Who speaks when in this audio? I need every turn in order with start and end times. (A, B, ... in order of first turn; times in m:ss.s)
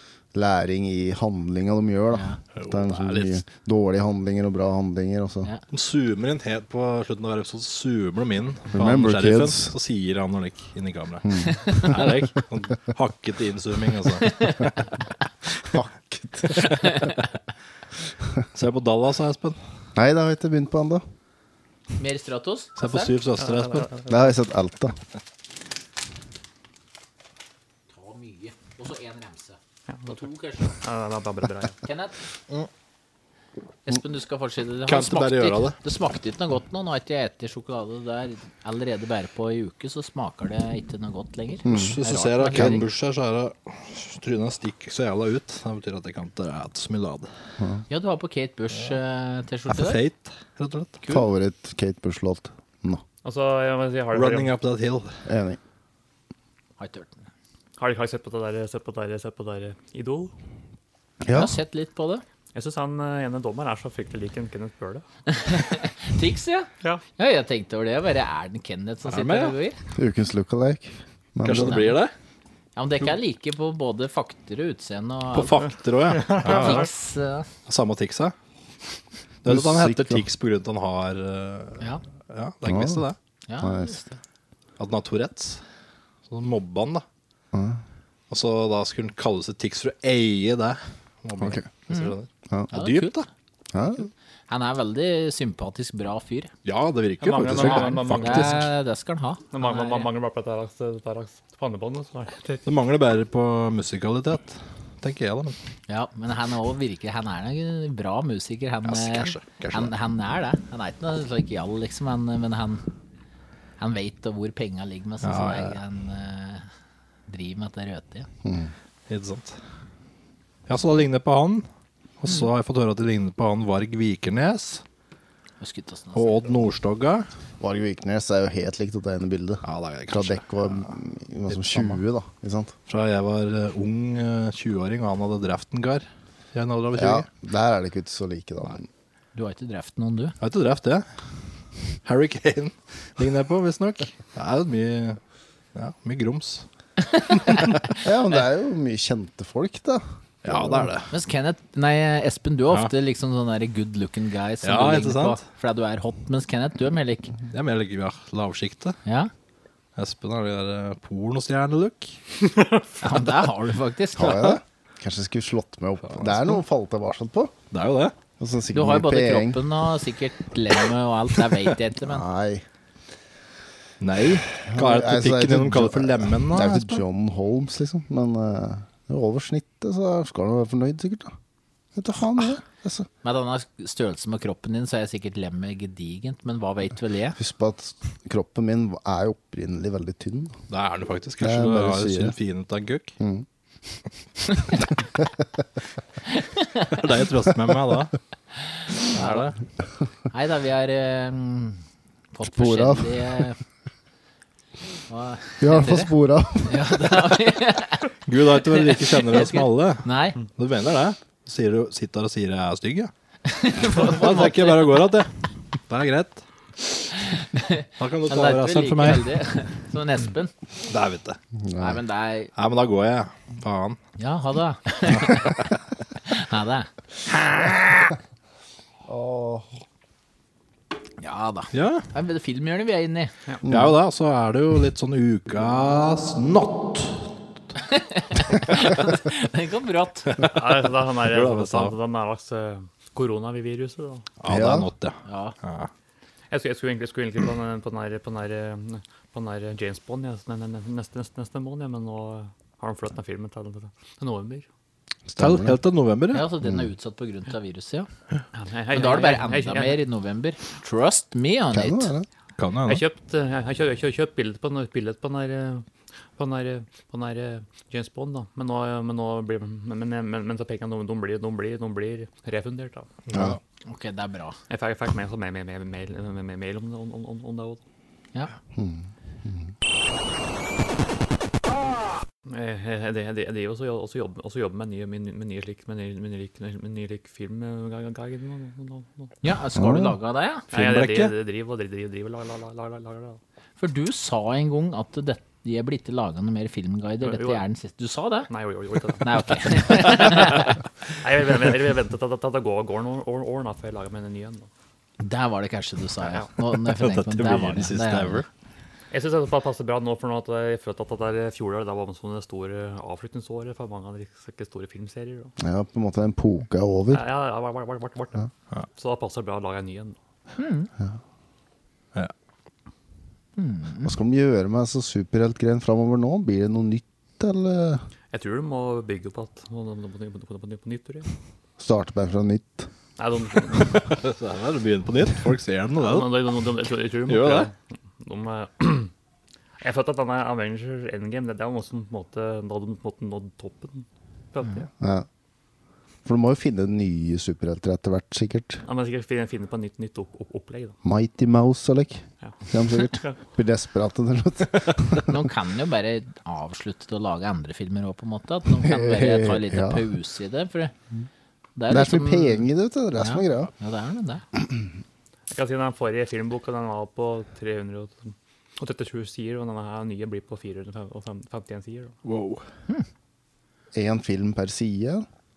0:00.3-0:05.5 A
0:02.1-0:02.4 B
0:02.5-0:03.4 C
0:05.7-0:14.9 C
0:08.7-0:09.7 A
0:11.2-0:11.9 A
0:14.3-0:14.6 B
0:15.6-0:17.1 A
0:16.5-0:17.1 C
0:18.5-0:19.6 C
0:19.9-0:21.0 A
0:22.0-0:23.1 B
0:22.8-0:23.9 C
0:23.4-0:24.3 D
0:24.1-0:25.0 A
0:27.9-0:30.8 B
0:29.9-0:30.2 D
0:30.7-0:31.8 D
0:31.8-0:32.2 B
0:33.8-0:42.8 B
0:34.9-0:35.8 C
0:41.6-0:42.0 A
0:41.6-0:47.3 C
0:42.5-0:42.8 A
0:47.9-0:50.0 B
0:49.7-0:50.9 C
0:51.0-0:51.3 B
0:51.1-0:53.0 A
0:53.2-0:54.5 D
0:54.1-0:55.2 C
0:55.2-0:55.6 A
0:56.8-0:57.2 B
0:57.8-1:00.3 D
1:01.2-1:01.6 A
1:01.3-1:02.2 B
1:02.5-1:05.0 D
1:05.3-1:09.8 B
1:09.1-1:09.5 C
1:10.0-1:12.0 A
1:11.4-1:12.1 C
1:11.6-1:12.0 B
1:12.8-1:15.7 B
1:15.3-1:16.9 C
1:16.1-1:16.9 D
1:16.4-1:17.5 B
1:17.7-1:18.3 C
1:19.4-1:23.2 C
1:19.4-1:20.2 A
1:22.6-1:23.0 A
1:23.5-1:24.2 B
1:23.6-1:24.0 A
1:24.8-1:25.6 C
1:26.3-1:27.0 C
1:27.5-1:27.8 A
1:28.3-1:33.3 C
1:31.4-1:31.6 A
1:31.9-1:32.1 B
1:32.7-1:33.2 B
1:33.7-1:34.1 A
1:34.5-1:36.5 B
1:36.6-1:38.7 C
1:37.2-1:38.7 D
1:37.5-1:40.1 B
1:39.5-1:42.6 D
1:42.6-1:45.6 C
1:45.9-1:52.8 B
1:48.8-1:49.9 C
1:53.8-1:56.7 B
1:55.2-1:55.8 C
1:57.3-1:58.3 B
1:58.4-1:58.7 A
1:59.1-1:59.6 C
2:00.7-2:01.7 C
2:02.2-2:04.8 C
2:05.6-2:06.6 B
2:06.1-2:07.3 C
2:07.6-2:12.7 A
2:09.6-2:10.9 C
2:11.5-2:12.0 C
2:12.9-2:17.3 C
2:17.0-2:18.9 A
2:19.3-2:20.4 B
2:20.4-2:21.0 C
2:22.0-2:25.2 C
2:25.7-2:26.6 C
2:28.0-2:30.9 A
2:30.4-2:31.1 C
2:31.1-2:37.3 B
2:34.6-2:35.4 C
2:37.5-2:39.0 C
2:39.0-2:39.3 B
2:40.0-2:42.2 C
2:43.0-2:44.6 B
2:44.1-2:47.5 A
2:46.1-2:46.6 C
2:47.7-2:48.1 C
2:48.4-2:49.6 A
2:48.7-2:52.2 B
2:52.0-2:52.6 A
2:54.0-2:57.0 C
2:54.7-3:01.3 A
3:01.9-3:03.1 A
3:03.2-3:07.4 B
3:07.4-3:10.6 A
3:10.7-3:13.1 C
3:11.4-3:12.4 A
3:13.2-3:13.4 A
3:16.6-3:16.9 B
3:16.9-3:18.1 C
3:19.1-3:19.5 B
3:19.1-3:19.5 C
3:20.3-3:21.8 B
3:22.3-3:23.6 B
3:22.4-3:23.5 A
3:25.1-3:26.1 B
3:25.6-3:27.3 A
3:26.6-3:30.4 B
3:28.2-3:33.1 C
3:33.4-3:35.0 B
3:33.8-3:35.3 C
3:35.9-3:36.4 C
3:37.3-3:40.5 B
3:38.0-3:39.3 C
3:40.8-3:41.4 C
3:41.6-3:42.0 A
3:41.8-3:42.5 B
3:42.5-3:44.0 C
3:44.2-3:45.6 B
3:45.1-3:45.6 C
3:46.2-3:46.9 B
3:47.4-3:47.9 C
3:49.1-3:49.8 A
3:51.2-3:53.3 B
3:51.7-3:52.0 C
3:53.6-3:53.9 A
3:53.6-3:57.3 C
3:57.8-4:00.3 B
4:00.4-4:04.2 D
4:01.2-4:01.9 C
4:04.4-4:05.9 C
4:04.4-4:04.9 A
4:05.2-4:05.5 B
4:06.5-4:14.7 D
4:15.3-4:15.8 A
4:15.4-4:16.5 C
4:16.3-4:18.1 B
4:16.6-4:16.9 A
4:18.5-4:20.0 D
4:18.9-4:22.1 B
4:21.7-4:22.3 A
4:22.6-4:23.0 C
4:22.8-4:33.1 D
4:33.3-4:33.6 C
4:33.8-4:34.6 B
4:34.7-4:37.8 D
4:38.7-4:39.7 A
4:42.4-4:49.3 D
4:49.4-4:50.6 B
4:49.7-4:50.2 A
4:50.7-4:53.4 D
4:50.7-4:51.3 C
4:53.8-4:58.5 B
4:57.2-4:57.6 D
4:58.5-5:04.7 D
4:59.2-5:00.7 B
5:05.2-5:08.4 B
5:06.7-5:08.4 C
5:09.1-5:15.5 D
5:15.6-5:17.2 A
5:17.1-5:20.2 D
5:20.6-5:20.9 B
5:23.6-5:24.1 B
5:24.0-5:28.0 A
5:28.3-5:31.3 D
5:31.8-5:32.9 A
5:33.2-5:34.1 D
5:33.8-5:36.4 C
5:36.0-5:39.1 D
5:37.3-5:37.7 C
5:39.8-5:44.9 D
5:45.0-5:45.2 A
5:46.2-5:48.8 A
5:48.8-5:51.0 D
5:51.0-5:55.3 A
5:52.4-5:53.4 D
5:55.3-6:00.9 B
5:58.7-6:00.1 A
6:01.8-6:04.4 B
6:01.9-6:03.7 A
6:05.5-6:12.2 D
6:12.2-6:12.6 C
6:13.9-6:15.2 A